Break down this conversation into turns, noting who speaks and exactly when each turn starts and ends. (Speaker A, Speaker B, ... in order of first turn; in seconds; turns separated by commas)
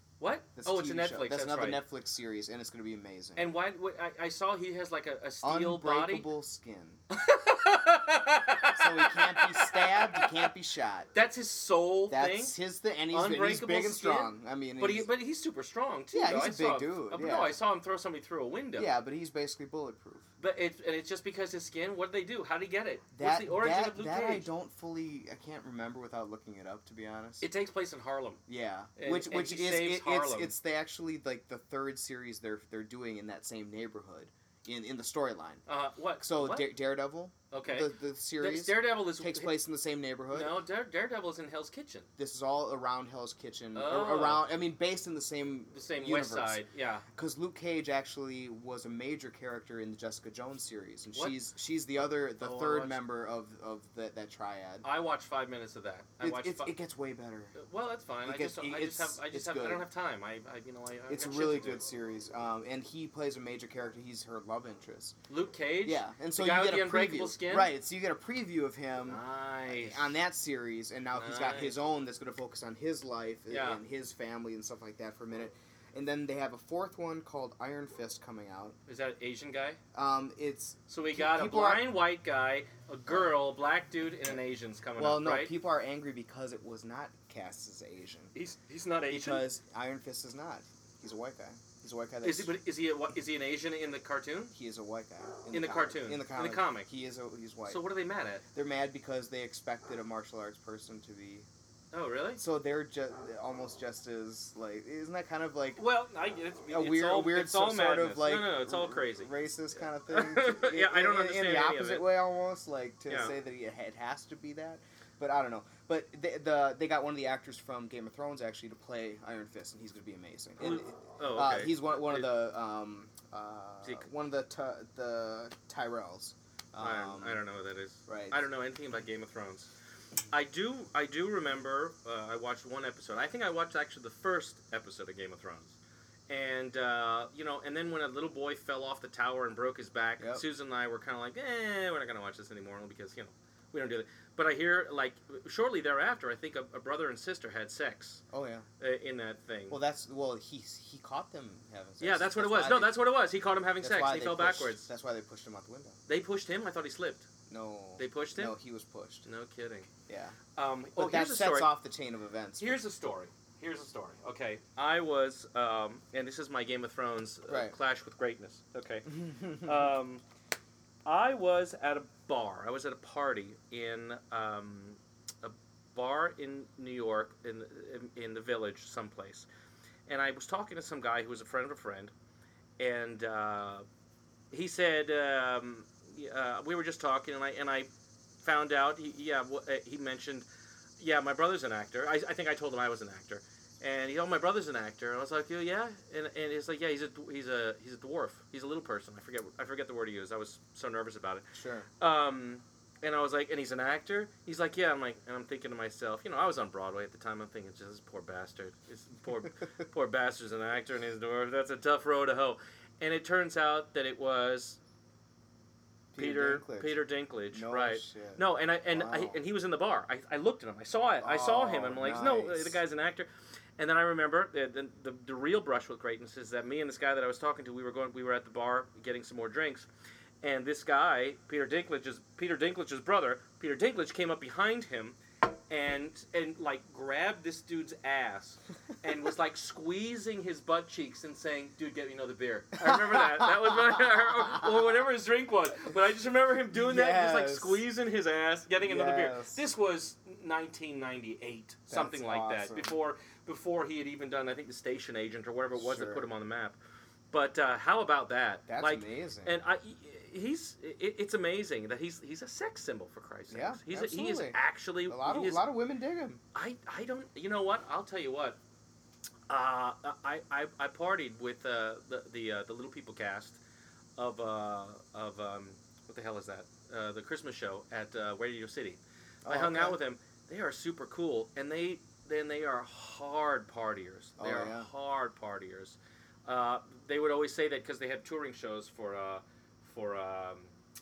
Speaker A: 0.2-1.8, Speaker B: 0.6-3.5, Speaker A: 3.4-6.3, Speaker B: 5.4-7.0, Speaker A: 7.1-10.5, Speaker B: 8.6-11.1, Speaker A: 11.1-12.6, Speaker B: 12.1-15.1, Speaker A: 13.1-18.9, Speaker B: 16.1-17.6, Speaker B: 18.8-20.3, Speaker A: 20.4-24.5, Speaker B: 23.1-27.5, Speaker A: 27.4-28.4, Speaker B: 28.5-35.6, Speaker A: 29.0-30.5, Speaker A: 35.7-36.7, Speaker B: 36.2-40.6, Speaker A: 37.5-39.5, Speaker A: 40.3-42.1, Speaker B: 42.2-46.6, Speaker A: 43.8-44.4, Speaker A: 45.7-47.0, Speaker B: 47.1-54.9, Speaker A: 52.4-53.0, Speaker A: 54.8-56.7, Speaker B: 56.2-57.6, Speaker A: 57.6-61.8, Speaker B: 58.2-59.9, Speaker B: 61.1-65.2, Speaker A: 65.3-67.7, Speaker B: 65.8-78.8, Speaker A: 69.1-70.1, Speaker A: 71.1-71.8, Speaker A: 73.5-73.8, Speaker A: 78.9-79.8, Speaker B: 79.9-81.9, Speaker A: 80.9-85.5, Speaker B: 85.0-88.3, Speaker A: 88.3-89.5, Speaker B: 89.1-92.5, Speaker A: 92.2-94.5, Speaker B: 94.5-97.8, Speaker A: 95.5-96.9, Speaker A: 97.7-98.5, Speaker B: 98.5-101.5, Speaker A: 101.9-102.4, Speaker B: 102.4-105.8, Speaker A: 105.8-109.3, Speaker B: 106.7-127.4, Speaker A: 110.1-112.1, Speaker A: 120.6-122.4, Speaker A: 126.8-129.7, Speaker B: 128.1-128.4, Speaker A: 130.3-135.8, Speaker A: 136.3-148.2, Speaker B: 140.2-140.4, Speaker B: 148.3-148.7, Speaker A: 148.8-149.8, Speaker B: 149.7-153.0, Speaker A: 152.0-154.8, Speaker B: 153.8-156.0, Speaker A: 156.1-157.3, Speaker B: 157.5-159.3, Speaker A: 158.0-158.5, Speaker A: 159.3-159.9, Speaker B: 160.1-160.4, Speaker A: 160.6-161.7, Speaker B: 161.0-162.8, Speaker A: 162.6-170.2, Speaker B: 167.5-167.8, Speaker B: 169.1-169.9, Speaker A: 171.1-179.5, Speaker A: 180.1-182.1, Speaker A: 182.8-183.9, Speaker A: 184.5-187.9, Speaker A: 188.4-190.5, Speaker A: 191.0-201.4, Speaker B: 201.6-201.9, Speaker A: 202.0-214.8, Speaker B: 216.1-219.4, Speaker A: 216.2-229.9, Speaker B: 221.2-222.8, Speaker A: 230.4-235.2, Speaker A: 235.7-256.8, Speaker B: 242.8-244.8, Speaker B: 246.7-247.8, Speaker B: 248.8-249.7, Speaker B: 251.9-253.0, Speaker B: 255.8-256.3, Speaker A: 257.3-265.7, Speaker B: 258.7-259.6, Speaker B: 263.5-266.4, Speaker A: 266.5-268.6, Speaker A: 269.5-273.6, Speaker A: 274.2-290.7, Speaker B: 279.4-280.0, Speaker B: 284.4-284.9